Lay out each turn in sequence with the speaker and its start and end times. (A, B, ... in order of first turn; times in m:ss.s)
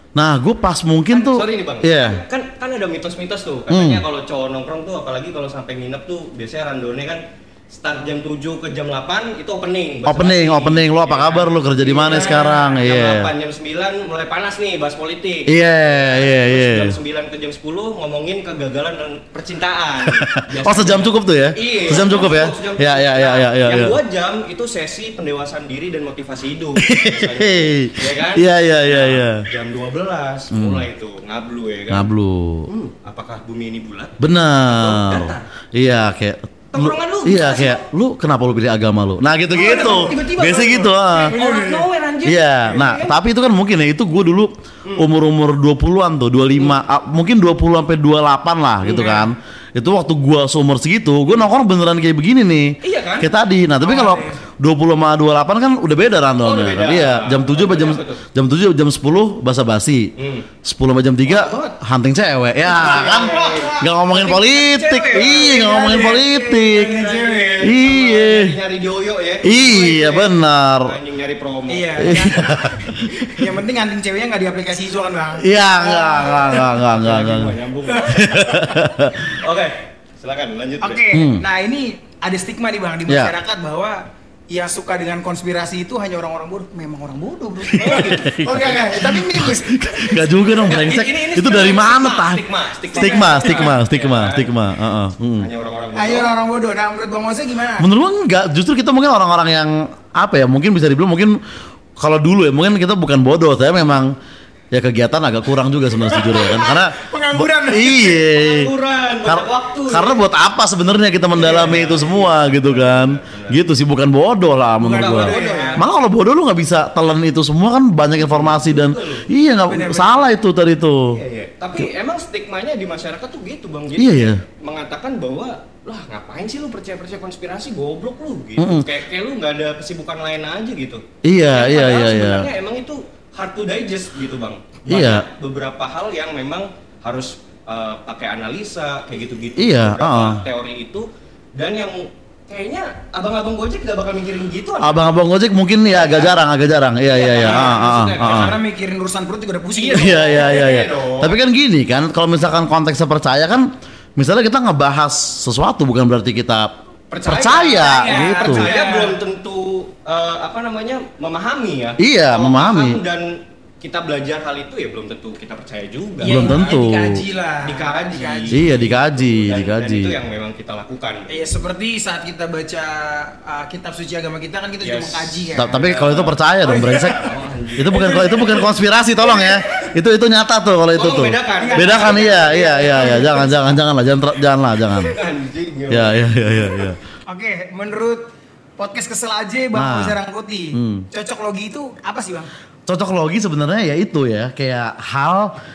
0:00.2-0:02.2 A
0:01.1-0:32.1 B
0:03.7-0:04.0 A
0:10.0-0:13.3 A
0:12.1-0:12.8 C
0:15.5-0:17.0 A
0:20.0-0:24.0 A
0:26.8-0:29.4 A
0:30.5-0:30.9 A
0:31.9-0:32.7 A
0:32.7-0:35.4 B
0:34.2-0:41.4 A
0:36.7-0:37.8 B
0:39.5-0:43.2 B
0:39.6-0:40.3 C
0:41.3-0:41.8 C
0:42.2-1:00.1 A
0:44.8-0:45.1 B
0:48.8-0:49.2 B
0:48.9-0:49.2 C
0:52.8-0:53.3 B
0:53.8-0:54.4 C
0:56.4-0:58.2 B
1:00.2-1:00.5 B
1:00.6-1:07.0 A
1:01.2-1:01.8 B
1:02.6-1:06.1 B
1:03.1-1:03.8 C
1:05.2-1:07.8 C
1:06.8-1:12.3 B
1:07.6-1:08.6 A
1:09.4-1:10.9 A
1:11.7-1:16.7 C
1:12.0-1:13.3 A
1:15.4-1:19.4 A
1:16.7-1:18.2 B
1:17.9-1:18.8 C
1:19.3-1:21.0 B
1:20.8-1:30.6 C
1:21.1-1:21.4 A
1:23.1-1:23.3 A
1:27.7-1:32.4 A
1:27.8-1:28.8 B
1:30.6-1:34.5 B
1:32.9-1:33.7 C
1:33.0-1:35.5 A
1:35.4-1:36.3 B
1:35.9-1:37.9 C
1:37.8-1:41.4 A
1:42.0-1:44.1 A
1:44.7-1:48.7 A
1:46.0-1:48.2 C
1:48.3-1:50.2 B
1:49.2-2:01.2 A
1:51.3-1:53.6 B
1:54.8-1:55.8 C
1:55.0-1:55.8 B
1:58.2-1:59.2 B
1:59.6-2:00.3 C
2:01.1-2:25.0 B
2:04.0-2:04.4 A
2:08.6-2:08.9 A
2:11.2-2:12.5 A
2:14.9-2:15.3 A
2:19.6-2:20.4 A
2:24.8-2:28.6 A
2:25.9-2:26.3 B
2:27.1-2:28.6 B
2:27.4-2:30.6 C
2:29.8-2:31.4 B
2:29.9-2:36.7 A
2:37.1-2:46.6 B
2:37.2-2:38.7 A
2:37.8-2:39.2 C
2:42.0-2:43.0 A
2:46.2-2:48.7 C
2:46.2-2:47.2 A
2:47.6-2:51.3 B
2:48.5-2:50.2 A
2:51.3-2:55.7 C
2:54.8-2:56.3 B
2:55.6-3:05.1 A
2:56.6-2:57.3 C
2:57.2-2:58.0 B
2:57.9-2:58.7 C
2:59.2-2:59.6 C
3:00.9-3:02.4 B
3:01.6-3:03.7 C
3:04.9-3:06.3 B
3:05.9-3:07.0 A
3:07.3-3:08.2 C
3:08.8-3:12.5 C
3:09.7-3:10.2 A
3:10.7-3:11.0 A
3:12.9-3:15.6 A